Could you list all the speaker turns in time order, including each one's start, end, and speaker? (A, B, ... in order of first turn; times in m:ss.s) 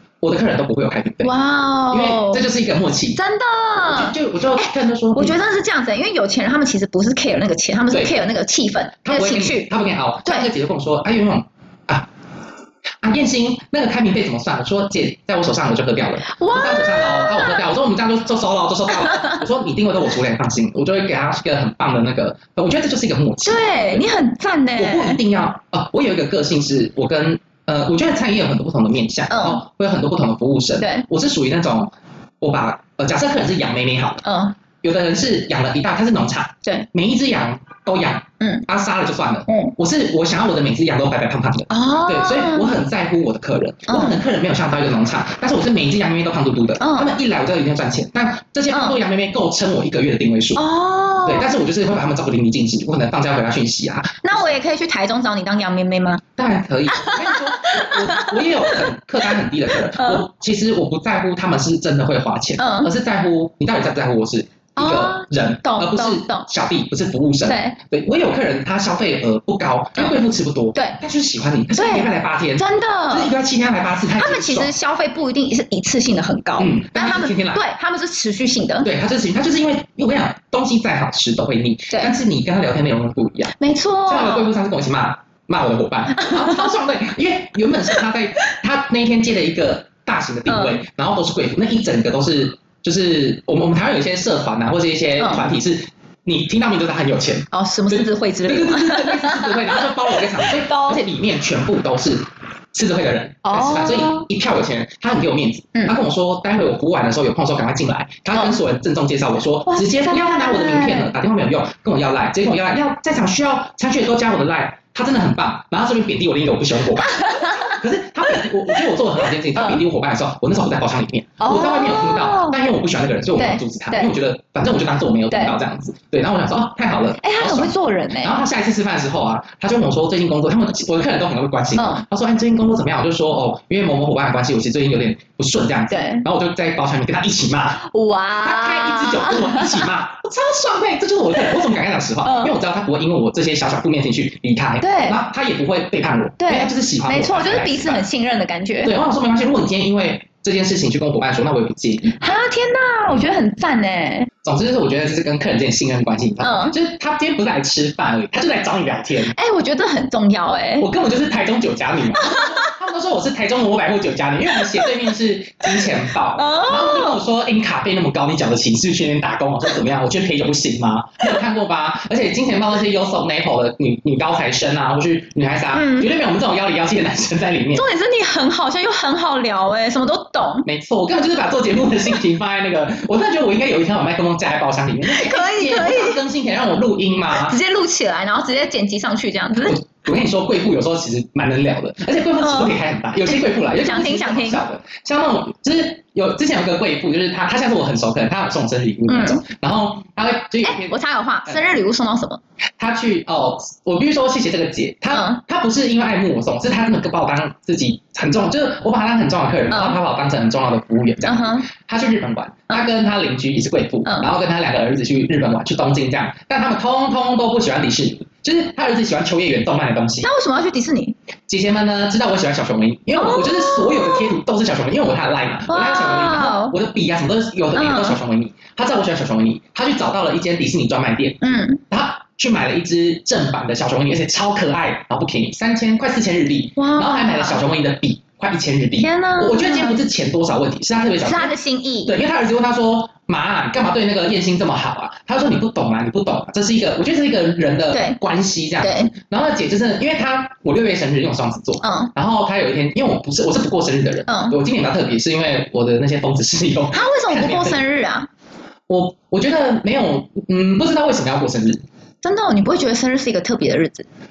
0:00.2-0:01.3 A
0:01.2-0:02.4 B
0:01.9-0:03.2 A
0:03.2-0:09.7 B
0:03.8-0:05.4 A
0:09.0-0:12.1 A
0:13.0-0:24.1 A
0:16.2-0:17.6 B
0:19.0-0:19.4 B
0:23.4-0:25.2 B
0:24.8-0:34.2 A
0:29.3-0:29.6 B
0:30.8-0:31.1 B
0:34.2-0:34.6 B
0:34.8-0:50.6 A
0:38.4-0:38.7 B
0:39.5-0:39.7 B
0:41.7-0:42.7 B
0:43.9-0:44.2 B
0:46.8-0:47.2 B
0:48.7-0:49.0 B
0:50.6-0:51.5 B
0:51.2-0:54.5 A
0:54.2-0:56.2 B
0:56.4-1:14.7 A
0:56.9-0:58.8 B
0:59.9-1:00.2 B
1:02.6-1:02.9 B
1:04.8-1:06.5 B
1:07.5-1:07.8 B
1:11.8-1:13.3 B
1:14.2-1:18.9 B
1:16.6-1:17.6 A
1:18.8-1:23.6 A
1:21.9-1:22.2 B
1:23.6-1:24.5 B
1:24.1-2:17.8 A
1:26.2-1:26.7 B
1:30.5-1:30.8 B
1:35.2-1:35.5 B
1:37.5-1:41.0 B
1:43.4-1:44.3 B
1:49.7-1:51.1 B
1:57.0-1:57.8 B
1:59.5-1:59.8 B
2:01.4-2:02.6 B
2:03.4-2:04.1 B
2:05.3-2:05.6 B
2:07.2-2:08.4 B
2:11.8-2:12.0 B
2:15.9-2:16.3 B
2:17.8-2:19.9 B
2:18.4-2:28.0 A
2:22.2-2:22.5 B
2:24.8-2:25.2 B
2:26.4-2:28.9 B
2:28.8-2:32.2 A
2:32.2-2:34.3 B
2:34.4-2:39.4 A
2:36.4-2:36.8 B
2:39.3-2:40.9 B
2:40.8-2:57.9 A
2:42.2-2:42.7 B
2:44.6-2:44.9 B
2:46.4-2:47.2 B
2:55.7-2:56.1 B
2:57.7-3:00.7 B
3:00.6-3:07.6 A
3:05.0-3:06.2 B
3:07.3-3:09.8 B
3:09.6-3:21.0 A
3:12.4-3:12.8 B
3:13.3-3:14.6 B
3:19.1-3:19.4 B
3:20.6-3:22.4 B
3:22.8-3:40.3 A
3:25.1-3:25.4 B
3:29.7-3:30.0 B
3:31.2-3:31.7 B
3:34.0-3:34.3 B
3:40.2-3:41.2 B
3:41.5-3:51.4 A
3:43.2-3:44.4 B
3:45.7-3:46.8 B
3:47.8-3:48.2 B
3:51.4-3:51.8 B
3:51.9-4:01.5 A
3:56.8-3:57.6 B
3:59.0-4:00.0 B
4:01.2-4:02.2 B
4:02.0-4:17.8 A
4:07.9-4:08.2 B
4:08.8-4:09.1 B
4:11.8-4:12.1 B
4:14.3-4:14.6 B
4:16.9-4:18.3 B
4:18.9-4:21.8 A
4:22.2-4:24.0 B